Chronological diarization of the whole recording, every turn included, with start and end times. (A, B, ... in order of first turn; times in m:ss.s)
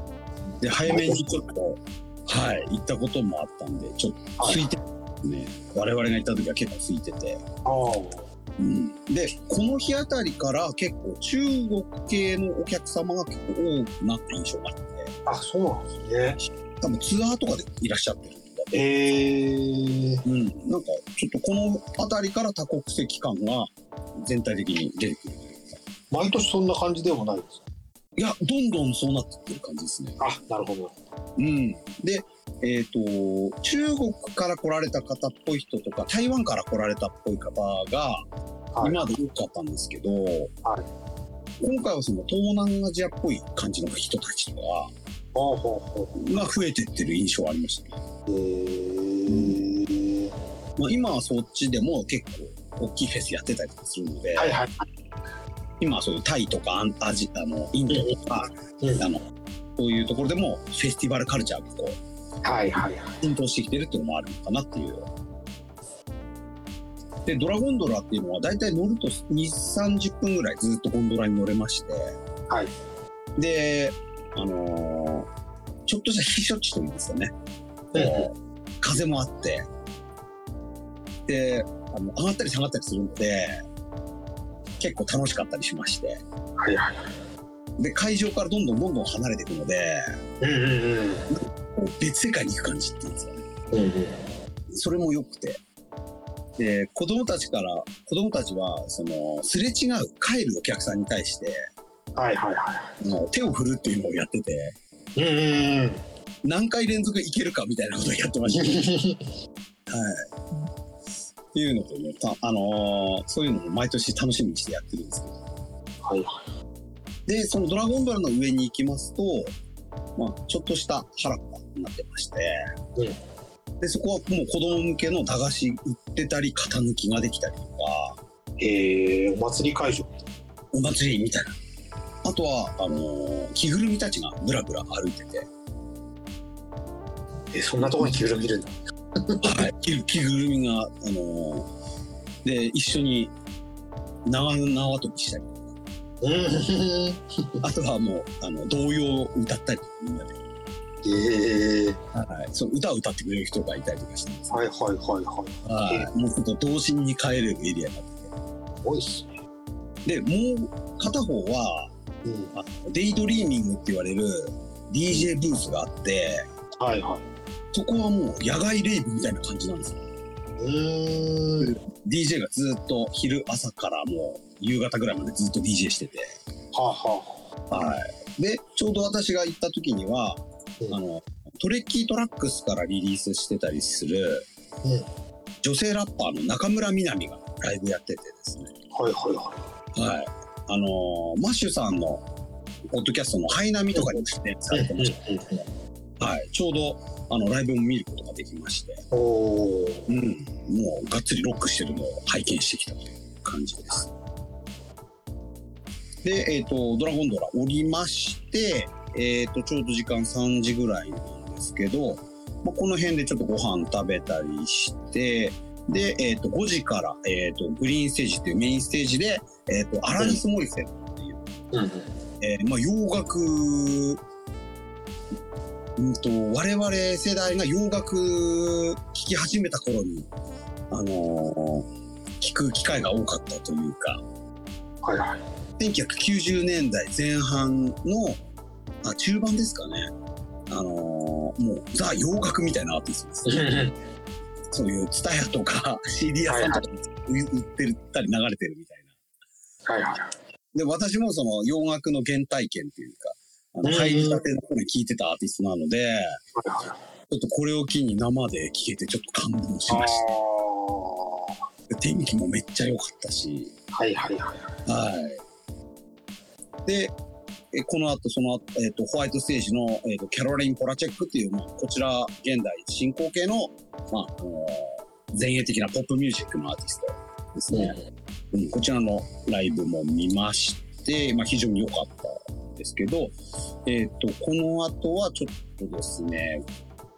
0:00.6-0:07.4 A
0:00.8-0:01.3 B
0:04.4-0:04.7 B
0:07.6-0:08.3 B
0:08.6-0:15.1 A
0:15.3-0:16.4 B
0:16.8-0:18.8 A
0:18.7-0:20.2 B
0:20.2-0:25.8 A
0:26.1-0:27.6 B
0:28.2-0:30.2 A
0:30.2-0:31.0 B
0:31.4-0:38.2 A
0:38.7-0:39.1 B
0:38.8-0:40.5 A
0:41.6-0:44.9 A
0:45.4-0:46.2 B
0:46.2-0:48.0 A
0:48.3-0:50.3 B
0:49.3-0:49.7 A
0:50.8-0:54.6 A
0:54.4-0:54.8 B
0:55.8-0:59.2 A
0:57.9-0:58.2 B
0:58.8-0:59.1 B
0:59.8-1:02.0 A
1:02.4-1:03.2 B
1:03.2-1:05.0 A
1:07.2-1:12.2 A
1:13.4-1:15.3 A
1:15.9-1:17.3 A
1:17.9-1:18.3 B
1:18.0-1:19.7 A
1:21.3-1:23.6 A
1:24.8-1:26.2 A
1:26.6-1:27.1 B
1:27.8-1:30.2 A
1:30.4-1:31.3 B
1:31.3-1:33.4 A
1:33.7-1:34.2 B
1:34.7-1:35.6 A
1:36.6-1:41.6 A
1:42.2-1:43.0 B
1:43.0-1:44.8 A
1:45.2-1:46.0 B
1:46.4-1:48.8 A
1:48.5-1:49.3 B
1:49.9-1:50.3 A
1:51.5-1:55.4 A
1:56.0-1:56.4 B
1:57.3-1:59.5 A
2:00.2-2:02.6 A
2:03.8-2:08.2 A
2:08.6-2:10.1 B
2:10.7-2:11.6 A
2:12.2-2:15.5 A
2:17.5-2:19.5 B
2:17.9-2:18.2 A
2:19.4-2:21.7 A
2:22.4-2:23.3 A
2:24.3-2:25.8 A
2:26.2-2:27.6 B
2:27.6-2:30.4 A
2:31.0-2:32.0 B
2:32.1-2:34.6 A
2:34.5-2:36.1 B
2:35.6-2:38.3 A
2:38.8-2:39.4 B
2:40.0-2:41.9 A
2:42.2-2:42.5 B
2:42.6-2:46.5 A
2:46.8-2:47.2 B
2:47.7-2:50.0 A
2:50.6-2:51.7 B
2:51.6-2:56.4 A
2:56.7-2:57.5 B
2:57.7-3:04.5 A
3:05.6-3:08.7 A
3:08.9-3:09.6 B
3:10.0-3:12.2 A
3:12.9-3:15.2 A
3:14.7-3:15.7 B
3:16.2-3:19.0 A
3:19.1-3:20.1 B
3:20.1-3:24.1 A
3:26.2-3:41.4 A
3:41.7-3:42.1 B
3:42.4-3:44.2 A
3:46.0-3:50.3 A
3:50.9-3:51.9 A
3:52.4-3:54.2 A
3:55.0-3:55.4 B
3:55.8-3:58.4 A
3:59.0-4:00.1 A
4:00.7-4:03.6 A
4:03.4-4:04.0 B
4:04.7-4:09.1 A
4:06.5-4:06.8 B
4:09.9-4:10.3 B
4:10.7-4:16.4 A
4:13.8-4:14.4 B
4:16.6-4:17.0 B
4:17.3-4:20.2 A
4:19.9-4:21.6 B
4:21.9-4:23.7 A
4:23.9-4:24.8 B
4:24.9-4:25.4 A
4:26.9-4:27.2 A
4:27.7-4:38.0 A
4:37.7-4:38.0 B
4:38.5-4:46.6 A